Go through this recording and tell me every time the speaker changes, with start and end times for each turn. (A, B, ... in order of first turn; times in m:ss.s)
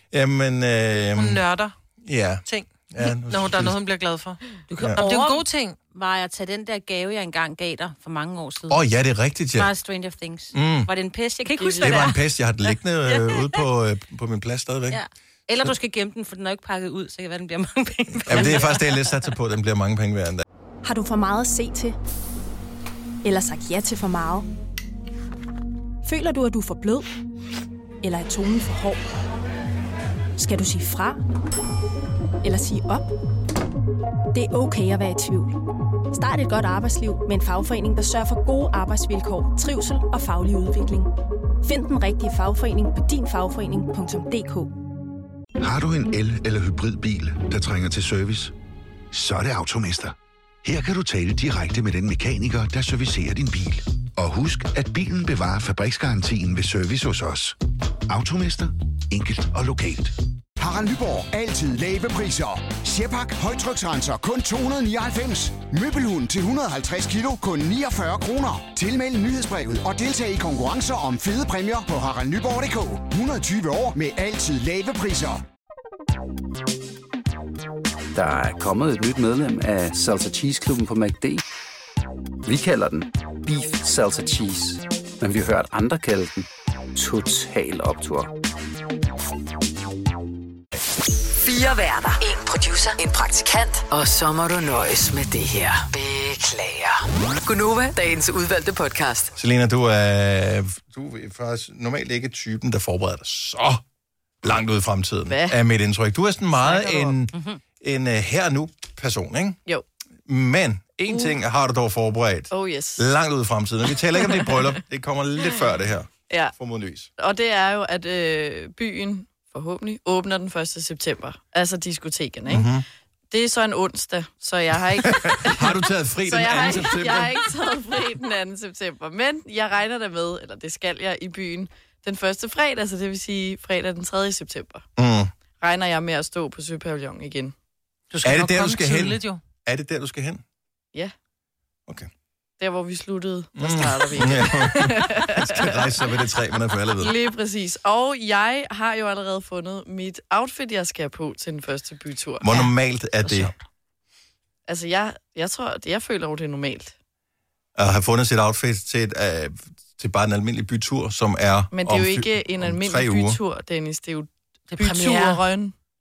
0:00.1-0:01.4 A
0:01.2-0:01.8 B
0:02.0-0:03.8 A
0:02.5-0:04.4 B
0:04.7-0:08.8 C
0:05.0-0:05.8 B
0:08.7-0:09.7 A
0:09.6-0:12.2 C
0:10.5-0:10.9 A
0:11.6-0:12.1 D
0:11.8-0:15.0 A
0:13.1-0:13.6 C
0:14.9-0:19.3 C
0:18.2-0:20.4 A
0:20.8-0:22.0 E
0:23.2-0:24.5 E
0:26.0-0:27.1 E
0:28.0-0:29.0 E
0:30.4-0:31.2 E
0:32.4-0:33.1 E
0:34.3-0:35.6 E
0:36.1-0:41.1 E
0:41.6-0:44.7 E
0:45.6-0:48.5 F
0:49.1-0:57.6 F
0:58.1-1:00.1 F
1:00.6-1:15.4 G
1:18.1-1:21.4 H
1:22.4-1:28.3 H
1:31.4-1:39.4 I
1:39.4-1:43.8 A
1:44.4-1:49.6 A
1:45.3-1:45.6 D
1:46.6-1:47.2 D
1:47.3-1:47.6 C
1:50.3-1:57.1 A
1:51.1-1:51.4 D
1:52.5-1:53.0 D
1:54.2-1:54.6 D
1:57.2-2:02.7 D
2:02.5-2:02.8 A
2:03.3-2:14.9 D
2:05.0-2:07.5 A
2:15.0-2:15.3 A
2:15.6-2:17.6 D
2:18.1-2:19.4 B
2:18.2-2:20.4 A
2:22.6-2:26.0 D
2:23.6-2:27.1 A
2:27.0-2:32.5 D
2:32.4-2:33.5 A
2:33.2-2:33.5 B
2:34.7-2:37.0 D
2:37.8-2:43.4 A
2:41.7-2:45.8 D
2:44.7-2:45.4 B